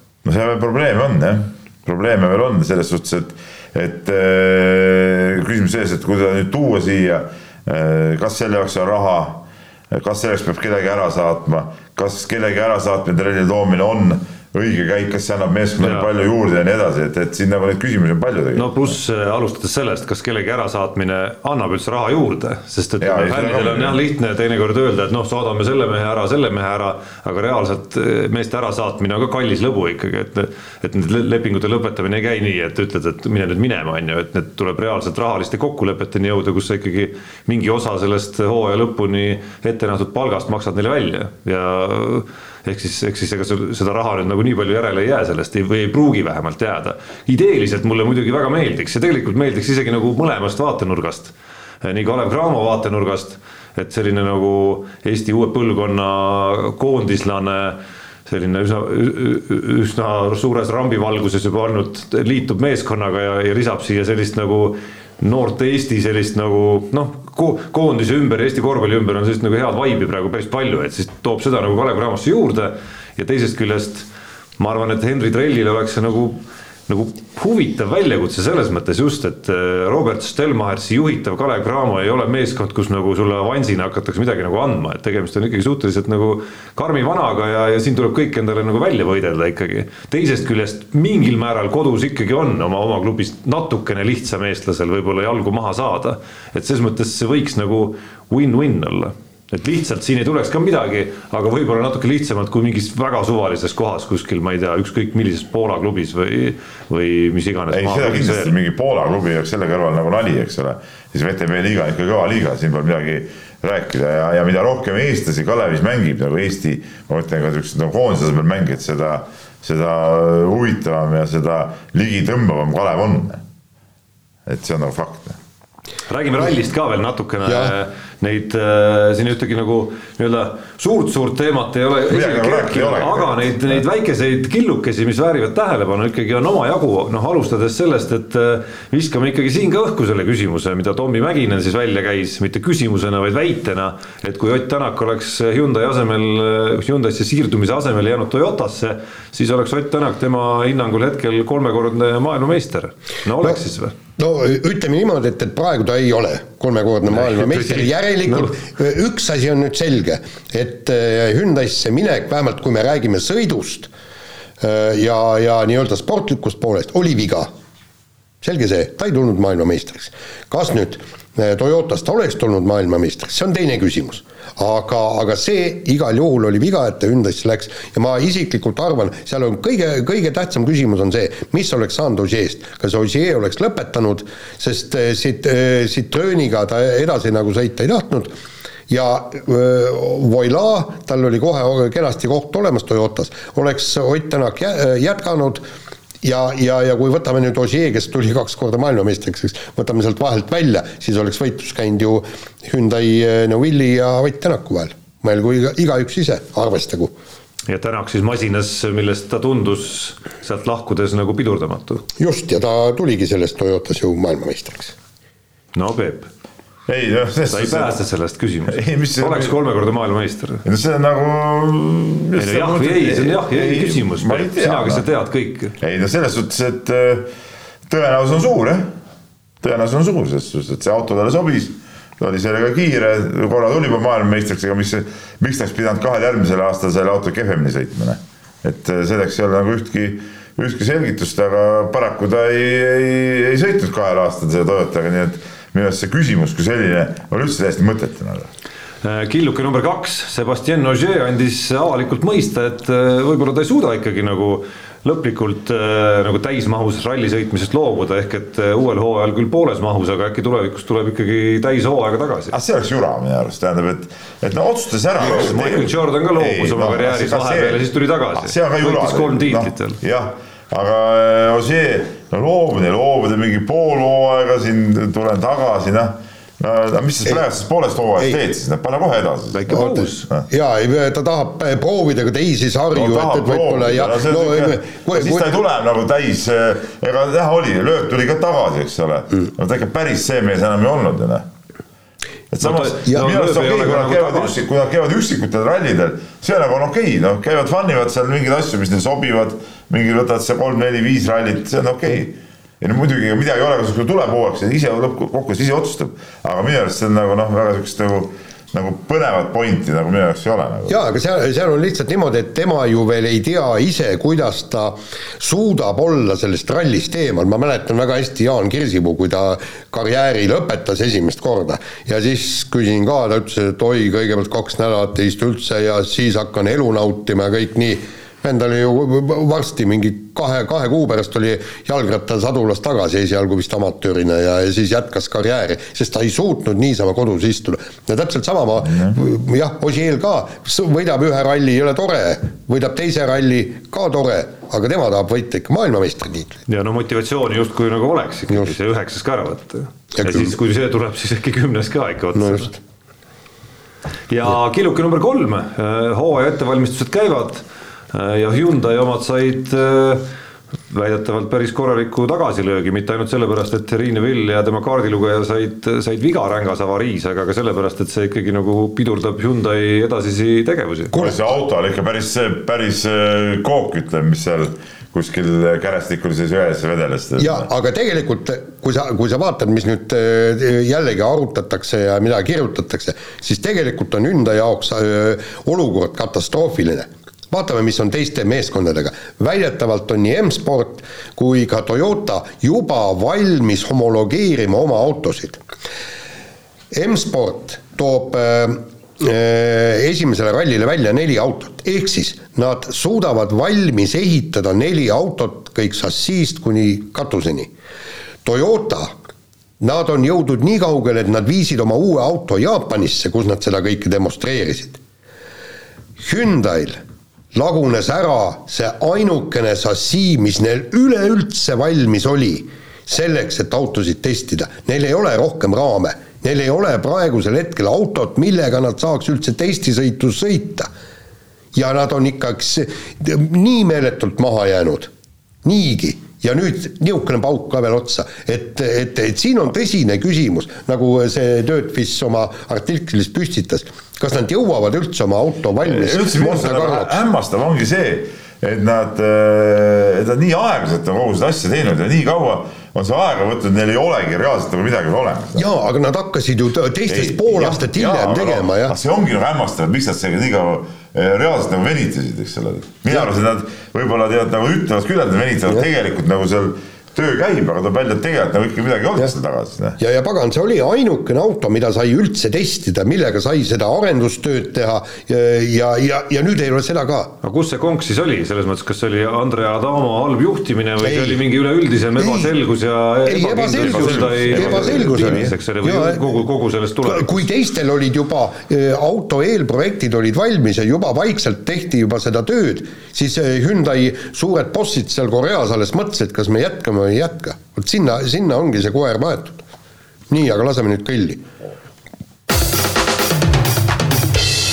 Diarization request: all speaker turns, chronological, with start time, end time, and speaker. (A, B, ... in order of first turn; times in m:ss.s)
0:00.2-0:18.9 A
0:15.8-0:16.1 B
0:18.5-1:14.1 B
0:23.0-0:24.0 A
1:14.6-1:48.5 B
1:47.7-2:03.4 A
2:04.5-2:05.4 A
2:06.1-2:33.9 B
2:07.4-2:07.7 C
2:12.1-2:13.8 A
2:34.2-2:43.9 C
2:37.1-2:38.6 B
2:44.6-2:47.5 C
2:48.4-3:08.3 C
3:08.9-3:15.6 C
3:16.2-3:27.1 C
3:27.7-3:32.0 B
3:32.2-3:34.9 C
3:35.7-3:36.3 B
3:36.9-3:38.0 A
3:37.5-3:40.6 B
3:38.7-3:39.5 A
3:40.6-3:45.0 A
3:42.3-3:45.7 B
3:45.8-3:47.3 A
3:47.9-3:48.9 A
3:49.6-4:08.5 A
4:09.0-4:22.5 B
4:22.5-4:27.8 A
4:25.2-4:30.0 B
4:28.3-4:40.4 A
4:39.5-4:40.3 B
4:39.7-4:45.5 C
4:42.9-4:51.4 A
4:52.5-5:11.0 A
4:52.6-4:54.6 B
5:10.9-5:46.6 C
5:38.9-5:39.2 A
5:46.7-5:52.7 B
5:50.2-5:50.5 C
5:52.3-5:52.8 C
5:54.3-6:00.2 B
6:00.9-6:11.1 B
6:11.1-6:11.5 C
6:11.1-6:17.7 A
6:17.4-6:35.6 C
6:36.9-6:47.7 C
6:48.4-6:49.1 C
6:49.8-6:55.0 C
6:56.2-6:57.0 C
6:57.5-7:10.9 C
7:11.7-7:15.1 C
7:15.6-7:27.2 C
7:25.8-7:35.7 A
7:35.5-7:39.0 C
7:37.1-7:50.0 A
7:50.0-7:57.3 C
7:57.4-8:07.5 B
8:01.0-8:01.4 C
8:02.2-8:02.5 C
8:03.2-8:06.2 C
8:03.7-8:05.5 A
8:07.0-8:19.6 C
8:20.3-8:21.4 C